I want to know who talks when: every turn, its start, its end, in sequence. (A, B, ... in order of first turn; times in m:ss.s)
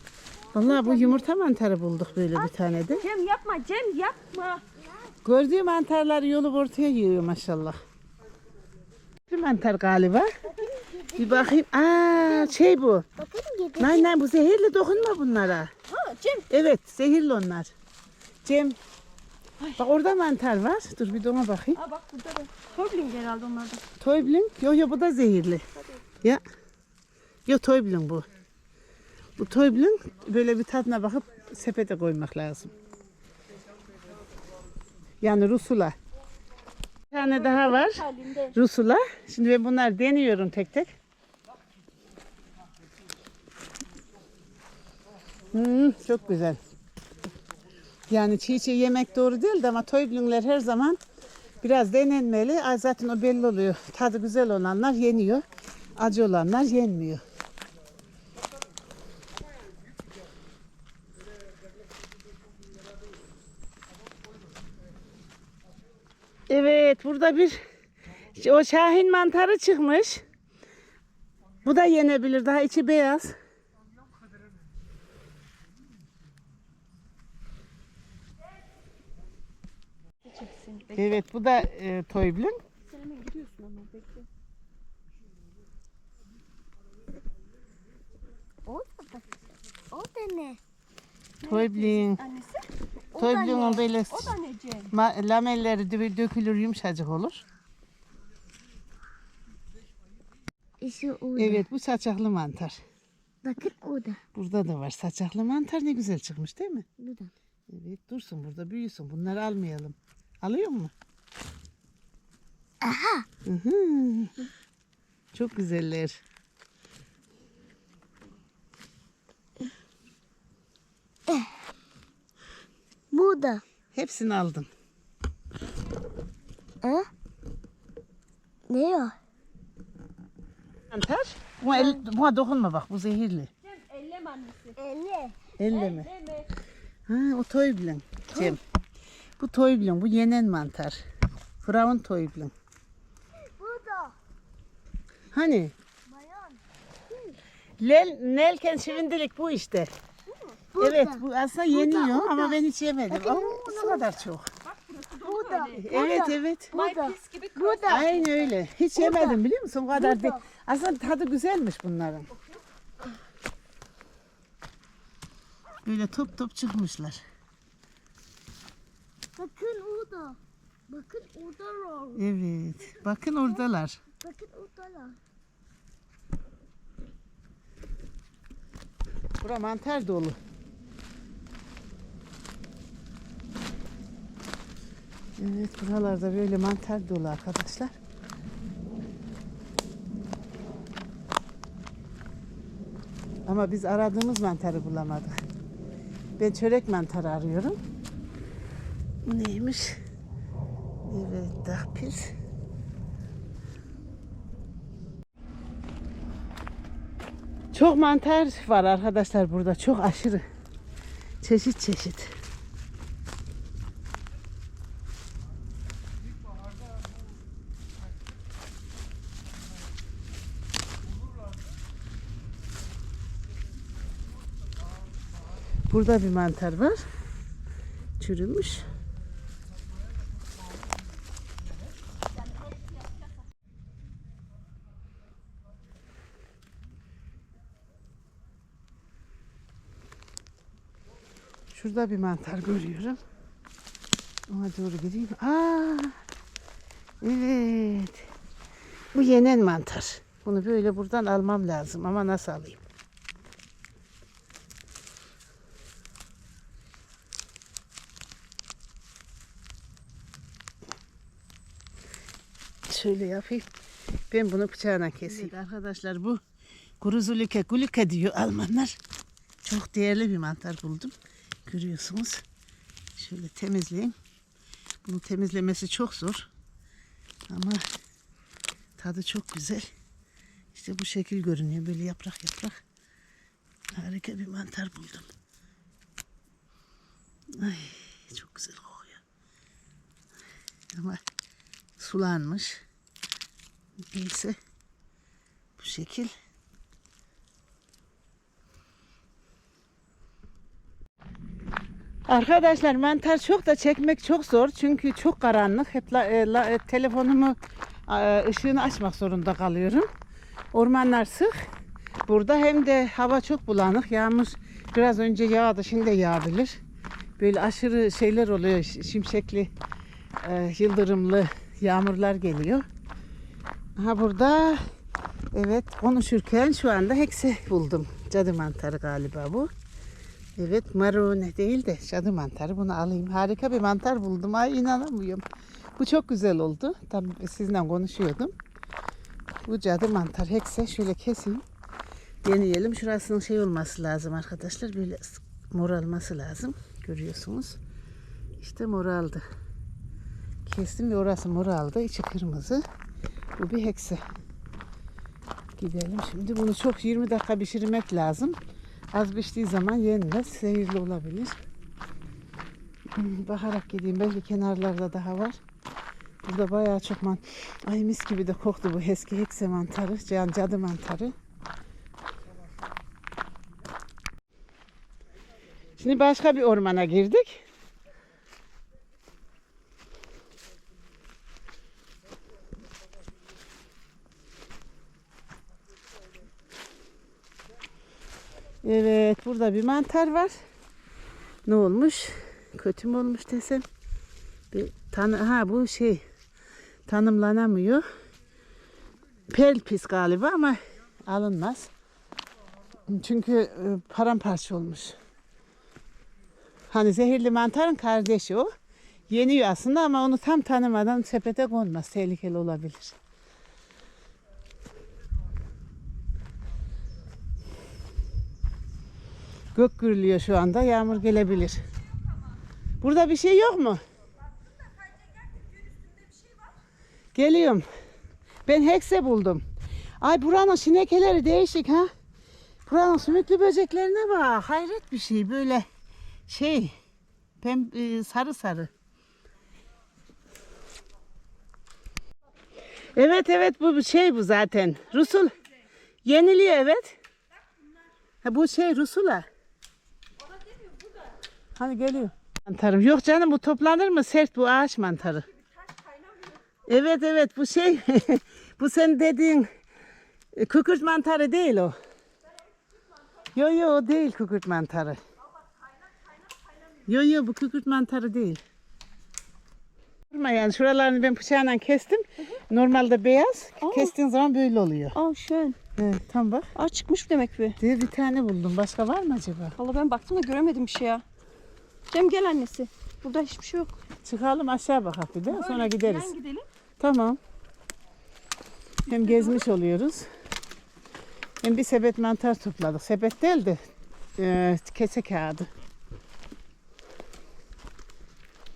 0:00.5-0:01.2 A
0:00.5-0:03.0 B
0:02.4-0:02.9 A
0:03.0-0:04.6 C
0:04.8-0:05.1 A
0:05.2-0:07.8 B
0:09.3-0:10.3 B
0:10.5-0:11.5 A
0:11.2-0:13.1 B
0:12.3-0:12.6 A
0:13.2-0:14.1 A
0:13.8-0:15.7 B
0:15.9-0:16.5 C
0:16.5-0:17.7 B
0:18.4-0:18.8 B
0:19.8-0:21.8 B
0:21.7-0:23.8 C
0:24.0-0:25.6 B
0:25.8-0:26.0 C
0:27.5-0:28.3 B
0:29.4-0:32.7 B
0:35.2-0:36.0 B
0:37.1-0:40.9 B
0:37.2-0:38.6 C
0:45.5-0:46.6 B
0:48.1-0:51.0 B
0:51.6-0:55.4 B
0:56.0-0:57.2 B
1:06.5-1:07.6 B
1:08.3-1:10.2 B
1:11.6-1:13.4 B
1:20.2-1:21.2 C
1:21.0-1:22.6 B
1:22.9-1:24.3 C
1:28.6-1:29.3 A
1:29.9-1:30.6 A
1:31.4-1:32.7 C
1:31.5-1:32.2 B
1:33.1-1:33.8 A
1:33.2-1:34.4 B
1:33.4-1:34.9 C
1:34.9-1:37.4 B
1:40.8-1:41.6 A
1:41.4-1:42.8 B
1:43.4-1:44.2 A
1:44.4-1:46.8 B
1:47.0-1:47.3 A
1:47.7-1:50.9 B
1:52.8-1:53.3 A
1:53.4-1:54.3 B
1:55.3-1:56.2 B
2:03.1-2:03.6 A
2:03.9-2:04.7 B
2:06.8-2:07.1 A
2:08.7-2:09.2 A
2:10.9-2:13.5 B
2:11.7-2:12.0 C
2:13.6-2:14.8 C
2:14.8-2:15.5 A
2:15.6-2:16.1 B
2:15.7-2:16.5 C
2:17.1-2:18.6 B
2:18.3-2:18.6 A
2:19.4-2:21.0 B
2:21.6-2:22.5 B
2:23.4-2:24.2 A
2:25.3-2:25.8 B
2:26.1-2:27.4 A
2:27.8-2:29.9 B
2:30.3-2:30.6 C
2:30.7-2:34.1 A
2:30.8-2:34.5 B
2:34.6-2:36.2 C
2:35.2-2:38.1 A
2:35.8-2:36.7 B
2:36.7-2:38.5 C
2:37.9-2:42.3 B
2:39.0-2:39.4 A
2:39.9-2:40.4 A
2:42.3-2:42.6 C
2:45.8-2:47.2 B
2:49.4-2:50.4 A
2:50.9-2:52.2 A
2:52.2-2:54.0 B
2:54.2-2:55.2 A
2:59.4-3:00.4 B
3:05.4-3:08.0 B
3:13.5-3:15.4 B
3:16.4-3:17.8 B
3:19.2-3:20.0 B
3:21.0-3:22.3 B
3:27.7-3:30.4 B
3:31.4-3:32.3 B
3:45.9-3:47.1 B
3:48.2-3:48.9 B
4:01.7-4:03.2 B
4:04.5-4:06.2 B
4:07.2-4:08.3 B
4:09.1-4:12.8 B
4:22.9-4:23.7 B
4:24.3-4:26.4 B
4:27.0-4:29.0 B
4:29.6-4:32.4 B
4:33.2-4:34.2 B
4:35.0-4:36.5 B
4:37.5-4:37.8 B
4:39.0-4:39.9 B
4:40.7-4:42.8 B
4:43.9-4:45.3 B
4:47.5-4:49.2 B
4:50.9-4:51.2 B
4:52.0-4:52.8 B
4:54.0-4:54.6 B
4:55.8-4:56.3 B
5:02.3-5:10.1 B
5:10.7-5:11.5 B
5:12.3-5:16.8 B
5:17.4-5:19.7 B
5:20.4-5:22.9 B
5:24.0-5:24.8 B
5:25.5-5:29.7 B
5:30.6-5:35.4 B
5:36.0-5:38.5 B
5:39.6-5:41.6 B
5:42.4-5:47.8 B
5:48.6-5:49.4 B
5:50.6-5:52.8 B
5:53.6-5:54.2 B
5:55.8-5:58.6 B
5:59.1-6:01.6 B
6:03.1-6:05.6 B
6:06.4-6:11.3 B
6:16.0-6:17.6 B
6:28.8-6:30.6 B
6:31.6-6:33.9 B
6:34.7-6:36.2 B
6:37.1-6:38.0 B
6:39.5-6:41.9 B
6:43.1-6:45.2 B
6:46.9-6:48.7 B
6:49.3-6:53.2 B
6:59.8-7:01.8 B
7:03.0-7:04.0 B
7:05.1-7:06.7 C
7:07.3-7:07.9 B
7:08.7-7:09.6 B
7:10.2-7:12.1 B
7:12.9-7:15.9 B
7:16.5-7:17.0 B
7:17.6-7:18.9 B
7:23.1-7:25.6 B
7:25.4-7:25.6 C
7:26.2-7:27.2 B
7:27.6-7:28.0 C
7:28.4-7:29.5 B
7:30.4-7:31.4 C
7:31.8-7:35.5 B
7:35.4-7:36.8 C
7:36.9-7:39.7 B
7:40.5-7:42.0 B
7:43.6-7:45.2 B
7:47.1-7:48.6 B
7:50.3-7:55.2 B
7:53.8-7:54.1 C
7:55.1-7:55.8 C
7:56.0-7:56.7 B
7:56.8-7:57.8 C
7:57.8-7:59.8 B
7:59.8-8:01.2 C
8:02.1-8:04.0 C
8:04.2-8:06.3 B
8:05.5-8:06.7 C
8:07.0-8:07.4 B
8:09.1-8:09.7 C
8:09.1-8:10.3 B
8:11.6-8:13.8 B
8:14.4-8:15.7 B